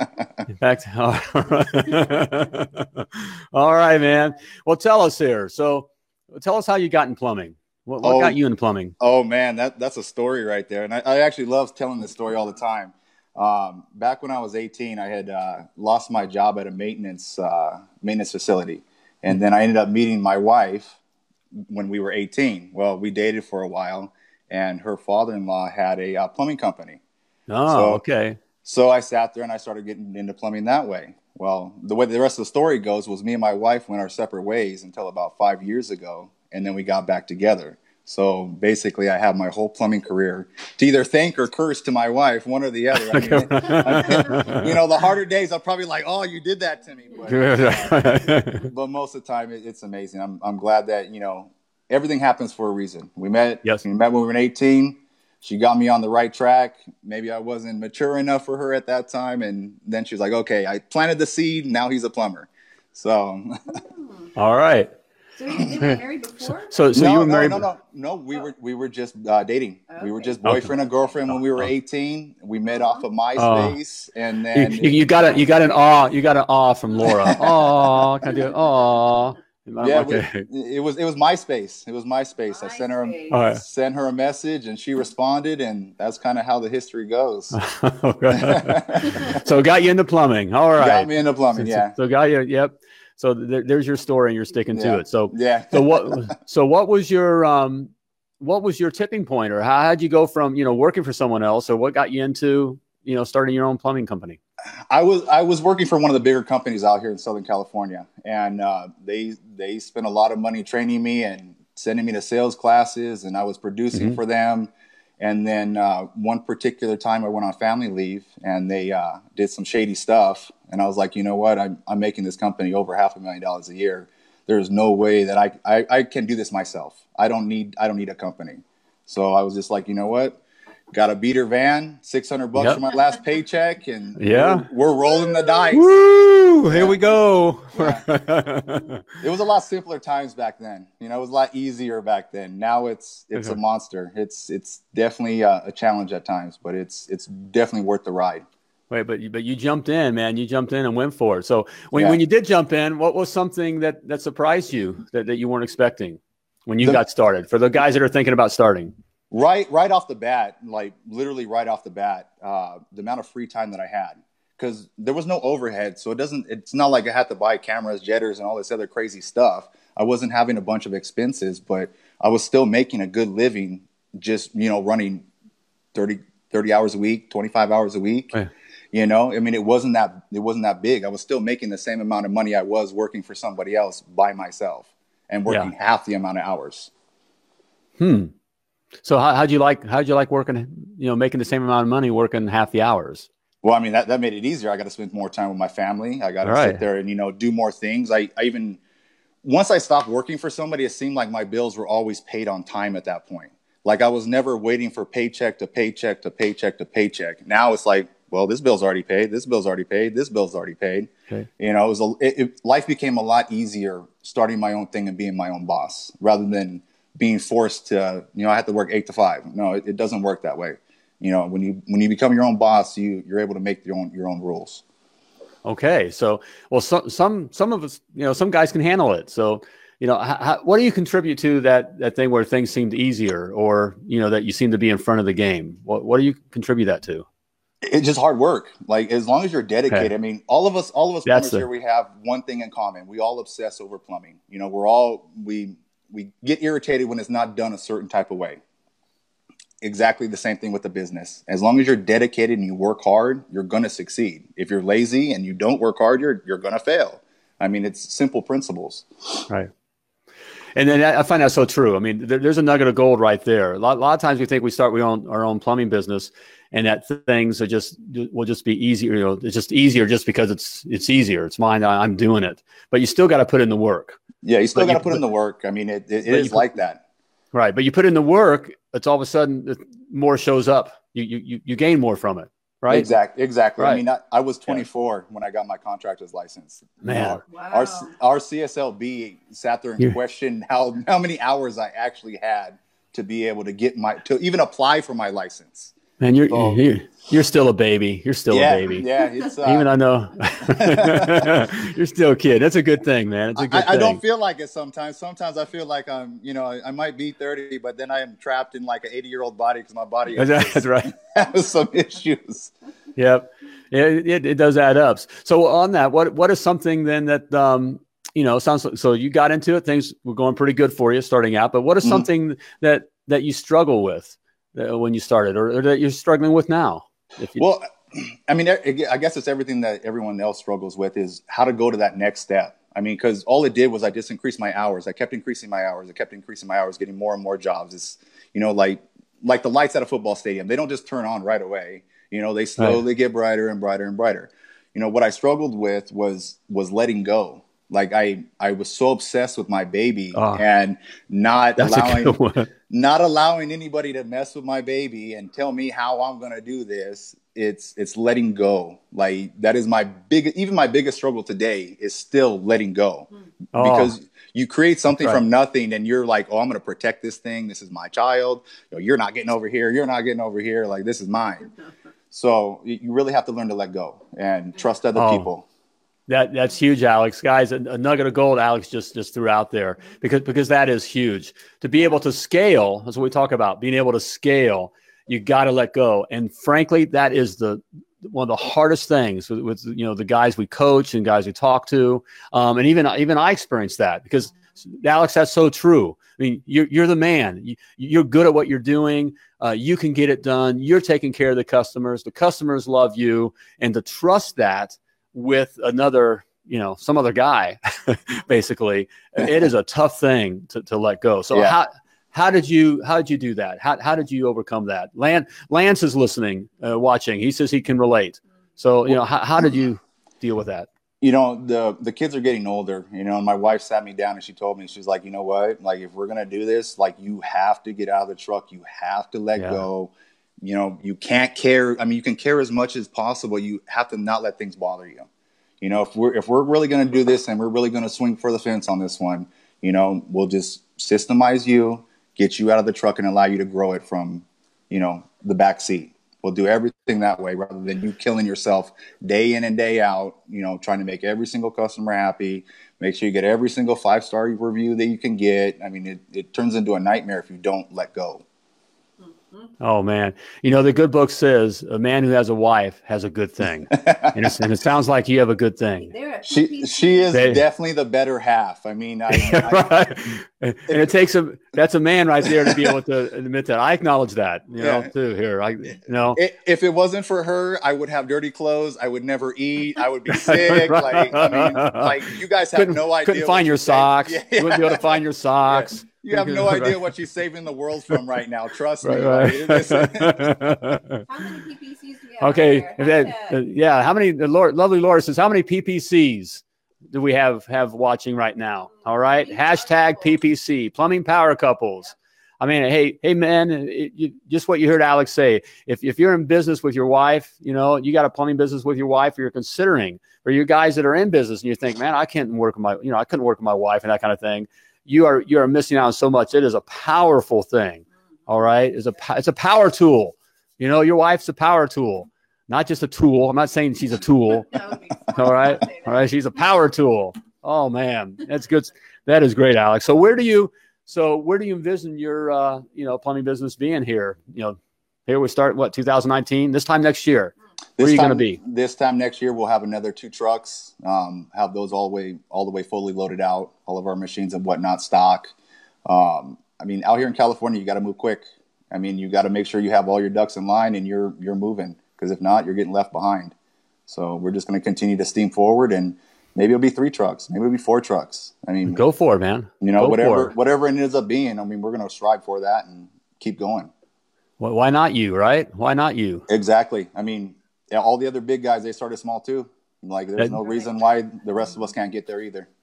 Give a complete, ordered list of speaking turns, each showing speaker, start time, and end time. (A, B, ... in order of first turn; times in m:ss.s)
0:00.6-0:08.9 A
0:08.0-0:08.4 B
0:09.0-0:21.0 B
0:21.7-0:27.0 B
0:27.5-0:28.4 A
0:27.7-0:28.0 B
0:28.6-1:03.8 B
0:42.9-0:44.8 A
0:47.3-0:48.7 A
1:03.8-1:04.1 C
1:04.4-1:04.9 A
1:05.4-1:06.8 C
1:06.6-1:07.7 A
1:07.0-1:15.0 B
1:09.9-1:10.4 C
1:10.4-1:10.8 A
1:11.3-1:11.7 A
1:12.7-1:13.0 C
1:13.4-1:13.8 A
1:14.5-1:20.5 A
1:17.0-1:17.4 B
1:19.8-1:27.6 B
1:22.5-1:23.4 C
1:23.3-1:23.6 A
1:27.5-1:44.4 A
1:28.4-1:29.4 B
1:30.8-1:32.0 B
1:34.8-1:36.3 B
1:44.9-2:10.4 B
1:53.9-1:54.2 A
2:10.9-2:15.9 B
2:12.6-2:12.8 A
2:14.2-2:14.7 A
2:15.7-2:19.0 A
2:16.7-2:17.0 B
2:17.8-2:18.0 B
2:19.2-2:28.4 B
2:23.3-2:23.6 A
2:28.9-2:38.9 A
2:39.3-2:55.3 B
2:56.0-2:58.3 B
2:58.9-3:06.9 B
3:08.0-3:08.3 A
3:09.0-3:13.3 A
3:13.6-3:18.8 B
3:16.4-3:16.8 A
3:19.4-3:44.8 B
3:45.6-3:57.3 A
3:57.8-4:08.6 B
4:01.3-4:01.7 A
4:09.8-4:19.4 B
4:20.8-4:34.2 A
4:34.4-4:37.0 B
4:34.8-4:35.2 A
4:36.3-4:36.7 A
4:37.5-4:43.1 A
4:42.9-4:55.9 B
4:47.0-4:47.4 A
4:47.5-4:48.1 C
4:56.2-4:59.1 A
4:56.5-4:56.8 B
4:58.5-4:59.9 B
4:59.6-5:04.2 A
5:00.6-5:01.5 B
5:03.6-5:12.7 B
5:10.4-5:11.1 A
5:13.2-5:27.6 A
5:27.6-5:52.4 B
5:50.3-5:50.6 A
5:51.8-5:52.7 A
5:52.9-6:11.7 B
6:03.7-6:04.1 A
6:12.3-6:15.6 B
6:15.2-6:15.5 A
6:16.3-7:00.9 A
7:01.2-7:15.3 B
7:09.6-7:09.8 A
7:15.8-7:38.4 B
7:39.8-7:46.1 A
7:43.9-7:44.4 B
7:46.1-7:47.3 C
7:46.4-7:49.9 B
7:47.3-7:47.6 A
7:49.3-7:56.4 A
7:52.5-7:52.9 B
7:54.8-7:55.1 B
7:56.4-8:10.5 B
8:00.3-8:02.2 A
8:02.8-8:07.0 A
8:09.0-8:11.2 A
8:11.3-8:13.6 C
8:12.4-8:44.7 A
8:19.1-8:20.4 C
8:44.5-8:46.3 C
8:45.3-8:58.6 A
8:58.0-9:05.5 B
9:06.1-9:13.5 B
9:14.1-9:19.0 B
9:18.9-9:20.5 A
9:19.8-9:23.9 B
9:24.6-9:26.5 A
9:26.5-9:32.7 B